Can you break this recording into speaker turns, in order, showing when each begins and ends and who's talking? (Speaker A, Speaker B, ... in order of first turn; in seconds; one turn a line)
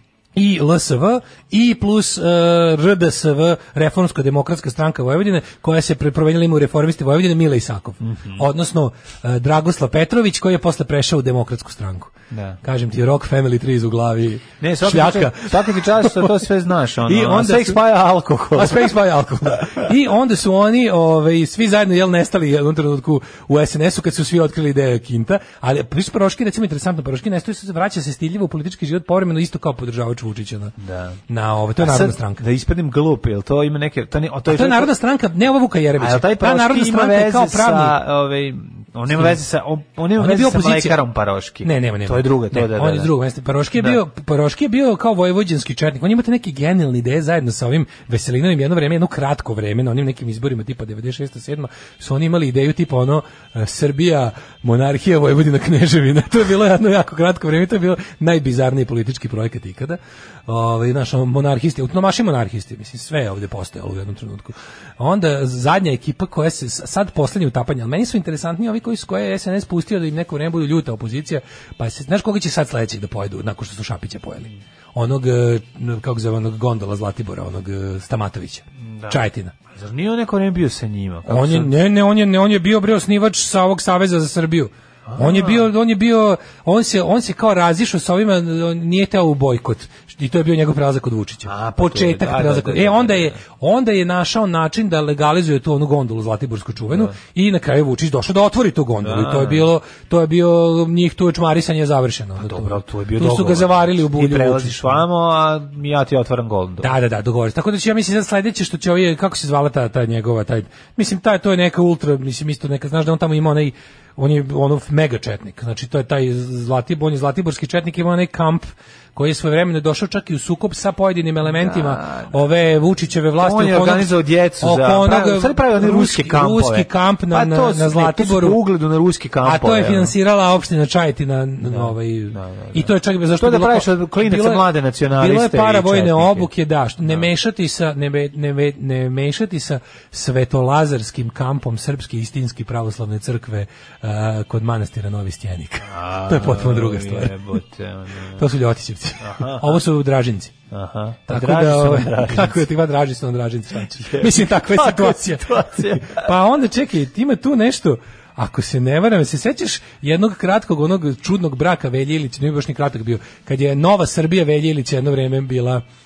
Speaker A: 0.4-16.4
Speaker B: 8.0-8.4
Speaker B: 12.3-12.6
Speaker B: 14.6-18.9
Speaker A: 17.1-17.8
Speaker A: 18.6-30.7
Speaker B: 30.8-31.2
Speaker A: 31.3-32.4
Speaker B: 31.8-34.9
Speaker A: 34.5-38.0
Speaker B: 36.0-43.1
Speaker A: 39.1-39.4
Speaker A: 40.2-41.0
Speaker A: 41.6-79.5
Speaker B: 78.8-79.2
Speaker B: 79.7-81.7
Speaker A: 81.3-105.0
Speaker B: 85.1-85.7
Speaker B: 91.5-93.4
Speaker B: 96.9-97.1
Speaker B: 99.0-99.7
Speaker B: 102.4-107.0
Speaker A: 106.8-128.6
Speaker B: 121.4-122.4
Speaker B: 123.4-130.1
Speaker A: 129.4-147.4
Speaker B: 131.7-136.5
Speaker B: 137.0-137.3
Speaker B: 145.8-148.5
Speaker A: 148.4-150.5
Speaker B: 149.2-149.8
Speaker B: 150.7-152.7
Speaker A: 151.3-165.8
Speaker B: 153.9-156.3